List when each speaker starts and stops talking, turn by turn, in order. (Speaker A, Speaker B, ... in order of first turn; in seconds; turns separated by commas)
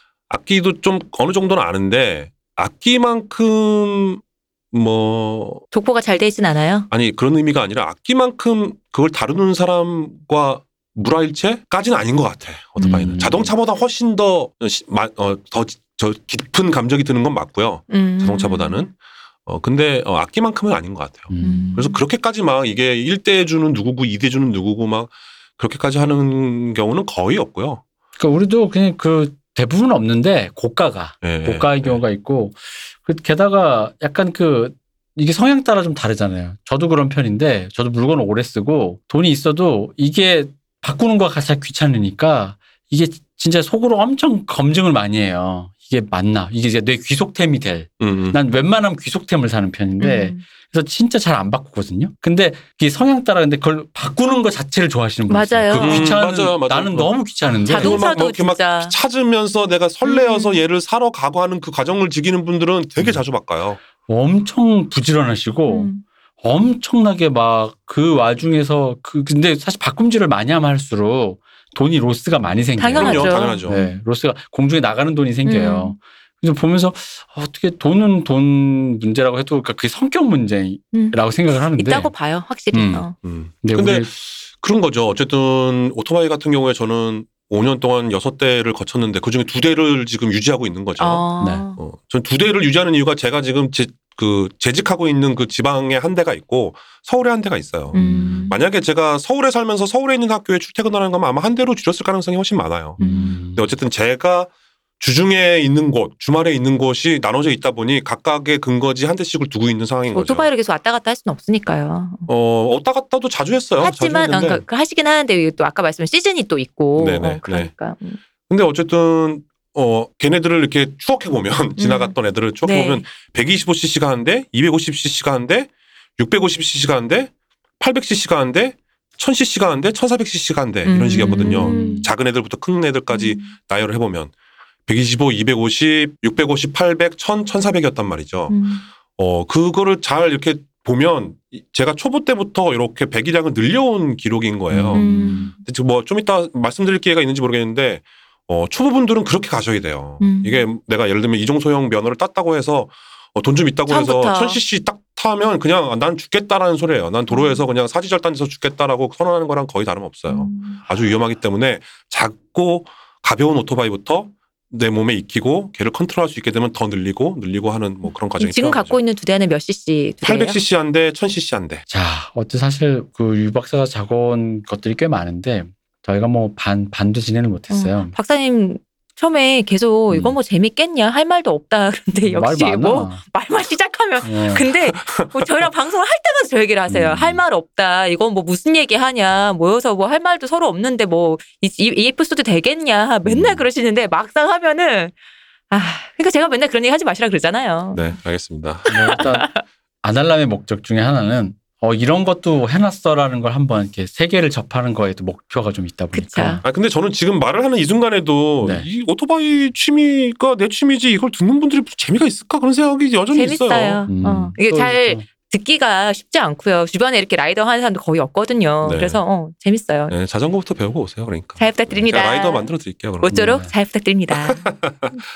Speaker A: 0.3-5.6, Speaker B: 5.7-6.9, Speaker A: 6.9-18.9, Speaker C: 12.8-13.5, Speaker B: 12.8-13.1, Speaker B: 17.9-18.9, Speaker A: 19.4-27.8, Speaker C: 21.3-21.8, Speaker B: 21.4-22.0, Speaker C: 28.2-58.0, Speaker A: 31.2-32.0, Speaker A: 48.0-48.4, Speaker B: 50.0-50.4, Speaker B: 55.3-56.2, Speaker A: 55.8-63.8, Speaker B: 57.7-58.9, Speaker B: 60.0-60.6, Speaker C: 64.1-82.1, Speaker B: 65.7-66.0, Speaker B: 72.8-74.0, Speaker A: 73.0-73.8, Speaker B: 75.4-76.0, Speaker B: 80.9-83.2, Speaker C: 82.7-83.0, Speaker A: 83.2-91.2, Speaker C: 83.6-84.1, Speaker B: 91.0-91.8, Speaker C: 91.4-91.7, Speaker A: 91.8-103.0, Speaker B: 97.9-98.6, Speaker C: 97.9-98.5, Speaker C: 103.0-103.6, Speaker B: 103.0-103.4, Speaker A: 103.5-110.5, Speaker B: 110.1-112.3, Speaker A: 112.3-114.6, Speaker B: 113.8-118.2, Speaker A: 117.0-117.7, Speaker A: 118.5-134.3, Speaker B: 121.8-123.0, Speaker B: 130.9-132.1, Speaker C: 131.7-132.0, Speaker B: 133.1-133.4, Speaker A: 134.9-138.6, Speaker B: 138.5-138.8, Speaker A: 139.2-169.0, Speaker C: 144.7-145.5, Speaker B: 144.9-145.5, Speaker B: 150.2-150.6, Speaker B: 153.9-154.6, Speaker B: 157.3-157.6, Speaker B: 160.3-160.8, Speaker B: 168.4-170.6, Speaker A: 170.2-171.8, Speaker C: 171.9-178.1, Speaker B: 177.7-195.1, Speaker C: 182.2-183.2, Speaker C: 184.2-184.7, Speaker A: 185.0-185.3, Speaker C: 186.9-187.4, Speaker C: 193.2-193.6, Speaker B: 195.7-198.1, Speaker A: 197.9-199.2, Speaker C: 198.9-199.5, Speaker B: 198.9-199.6, Speaker C: 200.0-206.6, Speaker B: 206.1-206.6, Speaker A: 206.6-214.1, Speaker B: 213.3-220.1, Speaker C: 214.1-215.3, Speaker A: 218.8-219.2, Speaker A: 220.1-223.4, Speaker B: 221.6-222.7, Speaker B: 223.2-224.7, Speaker C: 223.3-223.7, Speaker A: 224.3-225.2